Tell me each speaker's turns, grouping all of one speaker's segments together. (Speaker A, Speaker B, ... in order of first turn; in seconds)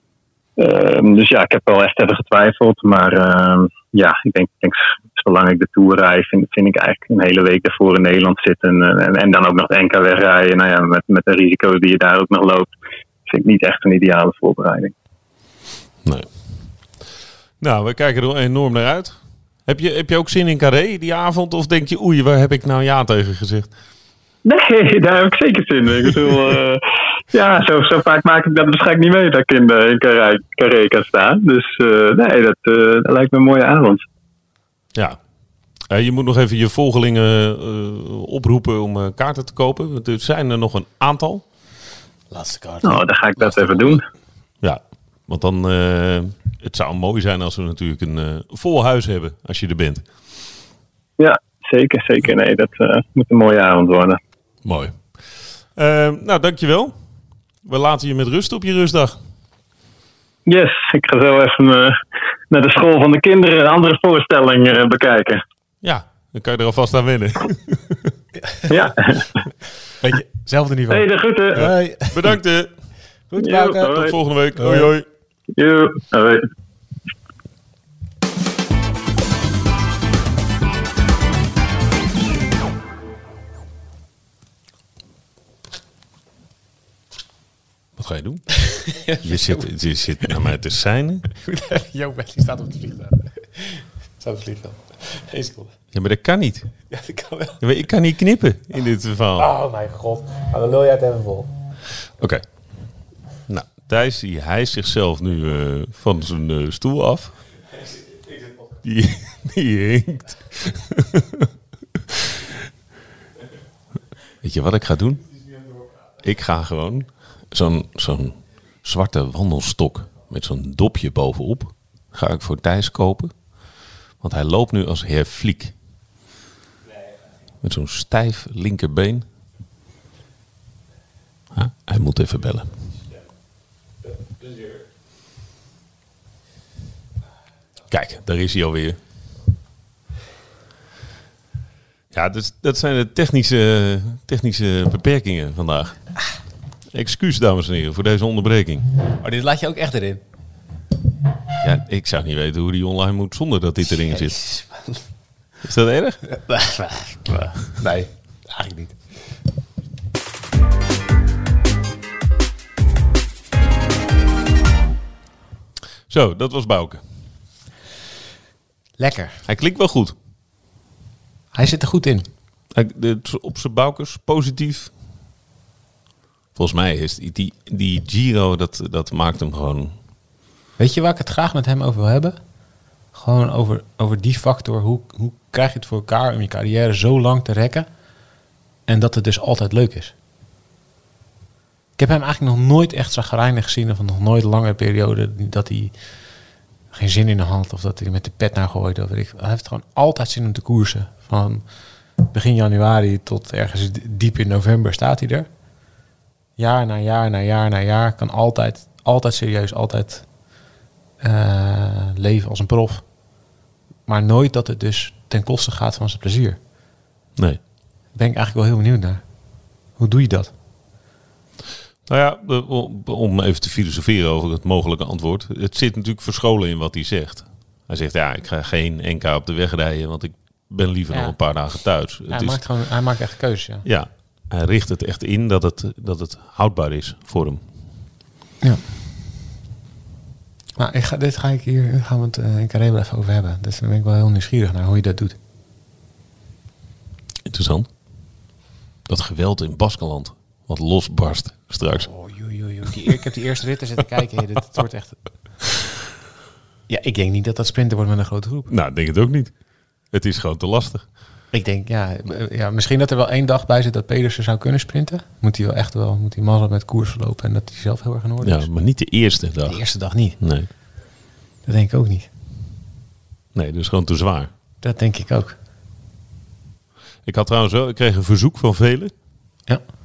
Speaker A: 0.6-12.7, 13.3-14.9, 24.4-26.8, 27.3-34.0, 42.8-44.0, 51.2-54.2, 60.5-62.0, 62.5-65.4, 68.7-69.3, 70.9-71.7, 73.4-74.1, 75.5-76.4
Speaker B: 16.0-16.8, 17.6-23.7, 35.9-41.4, 44.6-50.0, 54.6-56.9, 57.6-59.2, 65.8-68.1, 72.1-72.7, 73.8-75.0, 88.0-91.2, 95.9-96.7, 97.6-99.5, 103.5-107.4, 108.8-112.0, 114.4-115.4, 116.2-125.7, 127.6-129.2, 131.5-132.8, 137.9-139.0, 142.1-146.3, 146.9-148.9, 151.6-154.5, 155.6-156.4, 166.1-167.1, 169.5-170.1, 172.7-174.9, 176.5-179.9, 222.1-232.6, 233.8-237.6, 247.4-248.4, 249.1-252.1, 258.7-261.1, 268.4-270.7, 273.5-274.5, 277.2-279.1
Speaker C: 42.3-44.0, 70.0-72.3, 73.3-74.9, 88.8-89.7, 91.4-95.7, 96.9-97.6, 99.4-101.5, 149.2-150.2, 154.1-155.0, 156.3-159.0, 169.0-169.4, 171.5-172.3, 180.8-182.4, 183.1-187.9, 188.9-190.1, 192.0-195.9, 196.9-205.5, 206.6-210.5, 211.2-213.3, 214.1-216.6, 218.1-220.5, 231.1-233.8, 238.6-239.1, 240.8-245.3, 252.0-255.6, 256.9-258.7, 261.5-269.1, 269.6-270.8, 271.6-272.3, 274.8-275.6